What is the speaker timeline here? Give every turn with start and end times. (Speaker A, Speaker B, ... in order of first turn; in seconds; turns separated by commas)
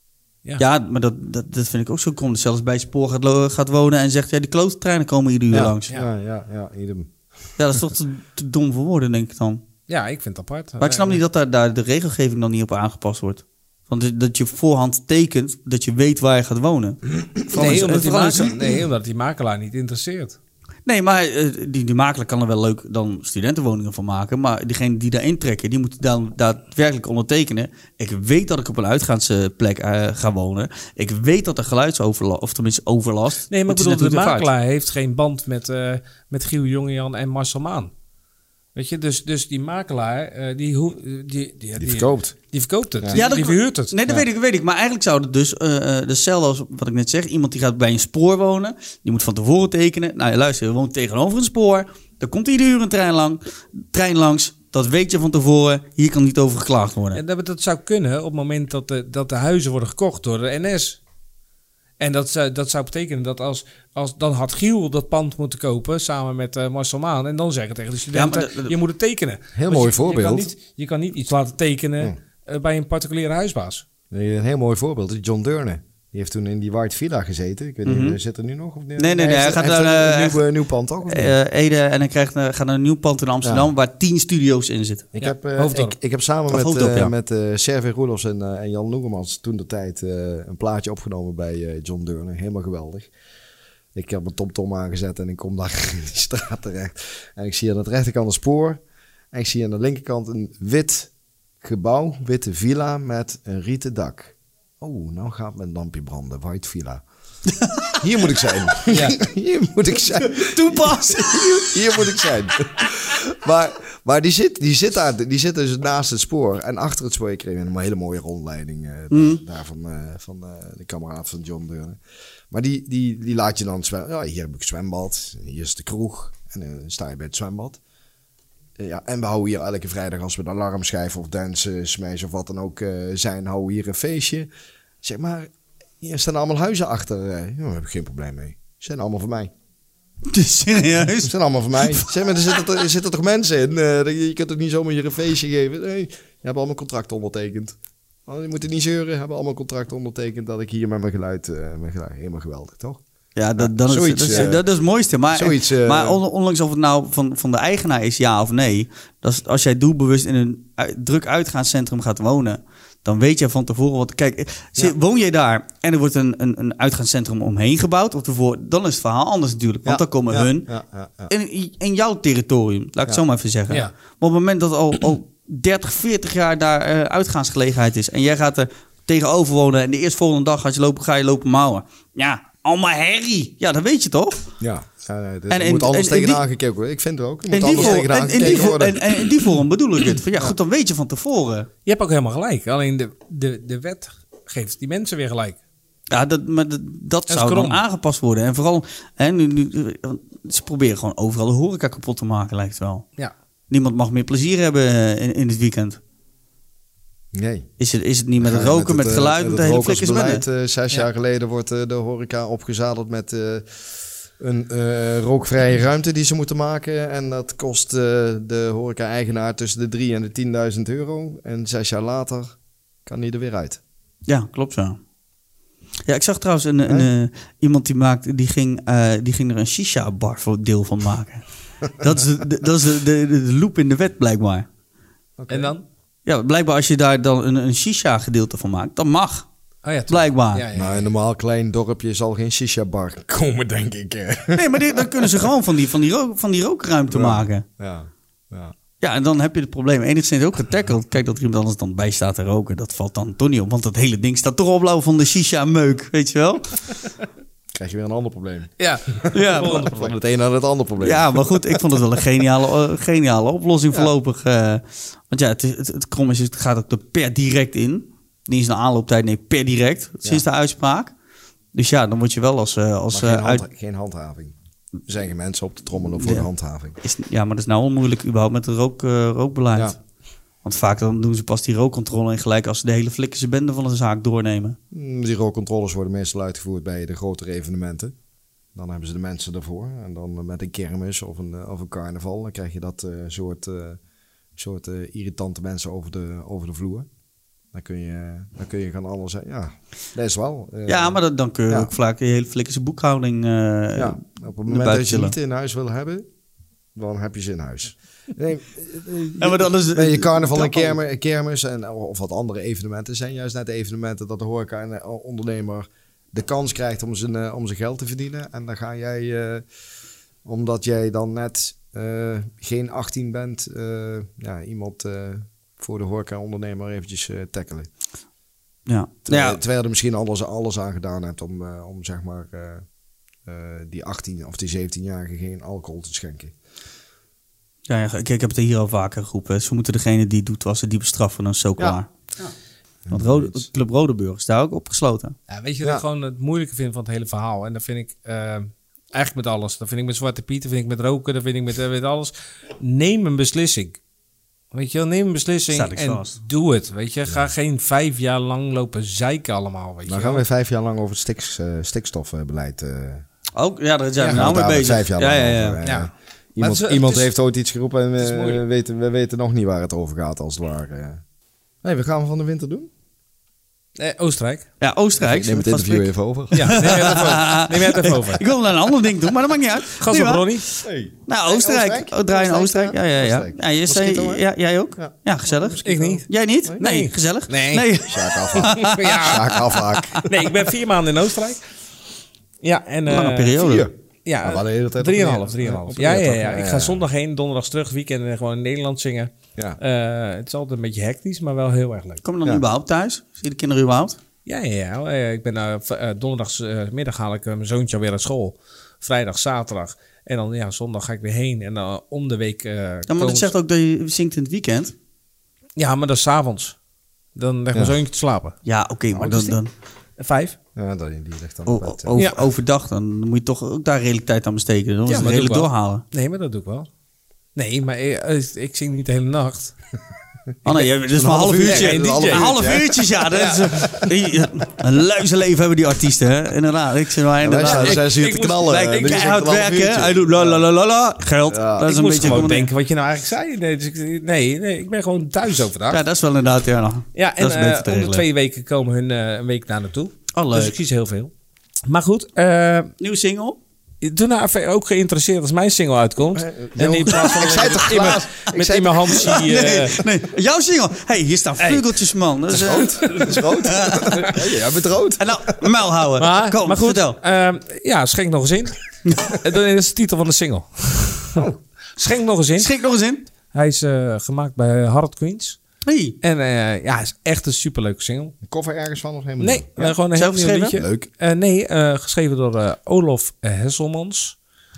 Speaker A: 0.6-5.9, Speaker B: 5.5-7.1, Speaker A: 7.6-9.6, Speaker C: 9.9-11.2, Speaker A: 10.8-18.7, Speaker C: 17.5-20.4, Speaker A: 20.9-34.5, Speaker C: 33.5-37.9, Speaker C: 38.7-43.9, Speaker B: 41.8-42.3, Speaker A: 43.1-57.2, Speaker C: 57.1-61.0, Speaker C: 62.0-73.8, Speaker A: 68.1-68.7, Speaker B: 69.5-70.5, Speaker B: 74.1-81.3, Speaker A: 77.8-78.2, Speaker A: 79.0-80.5, Speaker A: 81.0-85.1, Speaker B: 83.4-83.7, Speaker B: 85.1-93.1, Speaker C: 85.2-86.0, Speaker A: 86.5-87.1, Speaker B: 93.9-107.0, Speaker A: 107.6-107.9, Speaker B: 108.0-110.9, Speaker C: 108.9-109.2, Speaker A: 110.3-112.1, Speaker B: 111.7-122.0, Speaker A: 119.1-119.4, Speaker B: 122.5-127.8, Speaker B: 128.8-134.5, Speaker B: 135.0-139.5, Speaker A: 140.3-141.3, Speaker B: 141.2-153.0, Speaker A: 141.9-142.6, Speaker A: 153.3-170.7, Speaker B: 153.6-154.7, Speaker B: 155.3-156.2, Speaker B: 169.8-171.3, Speaker A: 171.3-184.4, Speaker B: 184.6-189.5, Speaker A: 185.5-186.4, Speaker A: 187.5-191.7, Speaker C: 191.8-195.6, Speaker A: 196.1-203.0, Speaker C: 197.3-197.8, Speaker A: 203.7-206.0, Speaker B: 207.3-207.7, Speaker A: 207.8-210.4, Speaker B: 208.4-223.8, Speaker A: 224.3-225.0, Speaker A: 226.1-234.7, Speaker B: 235.4-235.7, Speaker C: 235.5-235.8, Speaker A: 236.2-239.4, Speaker C: 239.8-241.1, Speaker A: 240.1-240.6, Speaker B: 240.7-245.5, Speaker A: 244.5-247.6, Speaker B: 247.1-248.7, Speaker A: 249.0-256.8, Speaker B: 257.7-261.8, Speaker C: 258.8-260.1, Speaker A: 259.3-259.9, Speaker A: 261.0-271.1, Speaker A: 271.7-273.6, Speaker B: 273.1-277.0, Speaker A: 276.2-276.5, Speaker A: 277.0-280.0, Speaker A: 280.6-284.8, Speaker B: 284.9-288.1, Speaker B: 288.7-294.0, Speaker B: 294.6-297.1, Speaker B: 297.7-301.9, Speaker A: 300.9-305.3, Speaker B: 303.9-306.3, Speaker B: 306.9-319.6, Speaker A: 309.4-311.0, Speaker B: 320.4-327.9, Speaker A: 328.9-329.6, Speaker B: 329.3-332.8, Speaker B: 333.4-336.5, Speaker A: 337.9-342.1, Speaker B: 343.1-343.7, Speaker A: 343.1-345.4, Speaker C: 345.5-354.0, Speaker C: 354.7-360.4, Speaker A: 355.7-356.4, Speaker B: 360.1-363.2, Speaker A: 363.6-365.8, Speaker B: 364.2-371.2, Speaker C: 365.8-367.3, Speaker C: 368.2-368.6, Speaker B: 371.8-372.9, Speaker C: 374.0-374.7, Speaker A: 374.8-390.2, Speaker B: 375.2-377.4, Speaker C: 376.5-378.4, Speaker C: 380.0-380.6, Speaker B: 380.8-384.4, Speaker B: 385.0-386.8, Speaker C: 385.8-386.2, Speaker C: 386.8-387.9, Speaker B: 388.1-390.3, Speaker C: 388.6-389.6, Speaker C: 390.2-391.6, Speaker C: 392.6-393.6, Speaker A: 393.1-393.9, Speaker B: 393.6-393.9, Speaker C: 394.2-402.2, Speaker B: 394.4-397.0, Speaker A: 402.2-404.2, Speaker C: 404.4-413.5, Speaker A: 413.1-414.9, Speaker C: 415.8-416.8, Speaker C: 417.3-418.5, Speaker A: 418.6-419.7, Speaker C: 419.1-419.6, Speaker C: 420.2-420.6, Speaker B: 420.7-422.2, Speaker A: 421.6-426.0, Speaker C: 422.1-422.4, Speaker C: 425.1-426.9, Speaker C: 427.6-429.7, Speaker A: 430.6-442.7, Speaker B: 430.7-434.1, Speaker C: 431.6-432.5, Speaker C: 433.3-433.8, Speaker B: 437.4-440.6, Speaker C: 437.6-439.3, Speaker B: 441.5-441.9, Speaker C: 441.8-446.0, Speaker A: 445.9-448.2, Speaker C: 447.1-451.3, Speaker A: 450.3-450.7, Speaker C: 451.9-452.9, Speaker A: 453.0-453.6, Speaker C: 454.0-460.0, Speaker B: 456.4-459.4, Speaker A: 459.1-464.5, Speaker C: 461.6-461.9, Speaker B: 462.5-465.6, Speaker C: 463.0-463.4, Speaker A: 465.2-467.2, Speaker C: 466.2-472.7, Speaker A: 469.1-469.4, Speaker B: 471.3-471.6, Speaker A: 472.6-473.2, Speaker C: 473.5-475.6, Speaker A: 475.8-476.2, Speaker C: 476.2-478.4, Speaker B: 478.4-479.9, Speaker C: 479.4-484.4, Speaker A: 480.1-480.8, Speaker B: 480.7-481.1